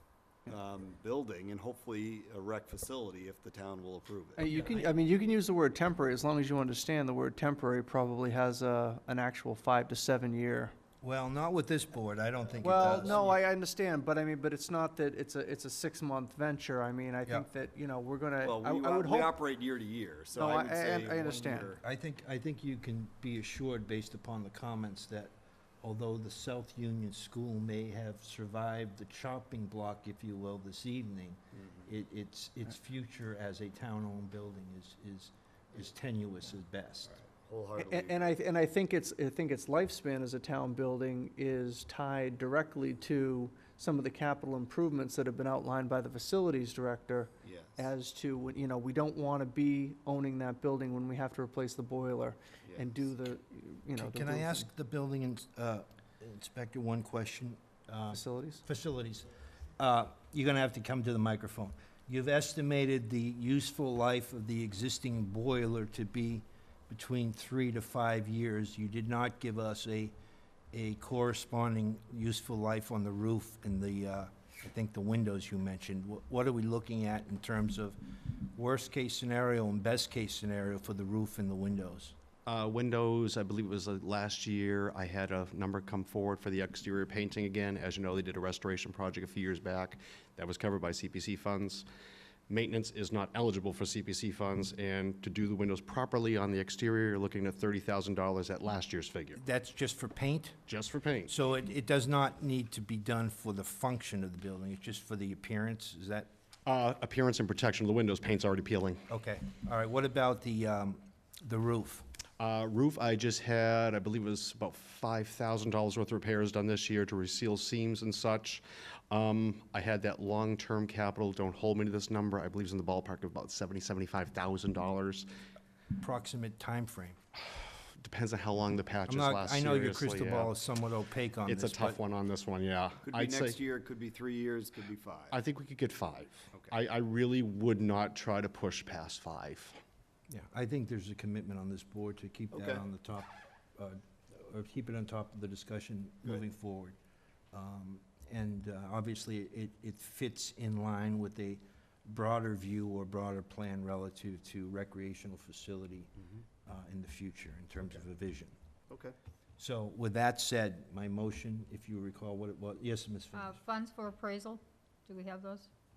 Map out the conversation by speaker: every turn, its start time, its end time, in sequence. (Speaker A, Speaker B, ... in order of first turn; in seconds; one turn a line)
Speaker A: 0.5-4.5
Speaker B: 4.4-10.7
Speaker C: 11.0-13.4
Speaker A: 12.5-13.4
Speaker B: 12.6-19.4
Speaker A: 18.4-21.8
Speaker B: 20.3-21.7
Speaker C: 21.8-37.2
Speaker A: 31.6-31.8
Speaker A: 37.2-38.3
Speaker B: 37.8-54.7
Speaker A: 47.4-47.9
Speaker A: 52.6-53.1
Speaker C: 54.0-59.3
Speaker B: 58.1-58.6
Speaker C: 59.8-70.1
Speaker C: 70.7-82.1
Speaker D: 82.5-91.9
Speaker D: 92.5-99.4
Speaker C: 99.4-100.6
Speaker D: 100.7-101.3
Speaker C: 101.3-106.3
Speaker D: 106.7-109.0
Speaker C: 109.1-112.0
Speaker D: 112.4-125.3
Speaker C: 126.0-127.2
Speaker D: 127.3-130.6
Speaker C: 129.1-132.0
Speaker D: 131.4-133.6
Speaker A: 133.0-135.4
Speaker D: 135.3-139.8
Speaker C: 140.3-146.9
Speaker A: 142.5-142.8
Speaker C: 147.5-156.1
Speaker C: 156.7-158.6
Speaker A: 158.9-159.1
Speaker C: 159.6-163.6
Speaker E: 163.3-165.7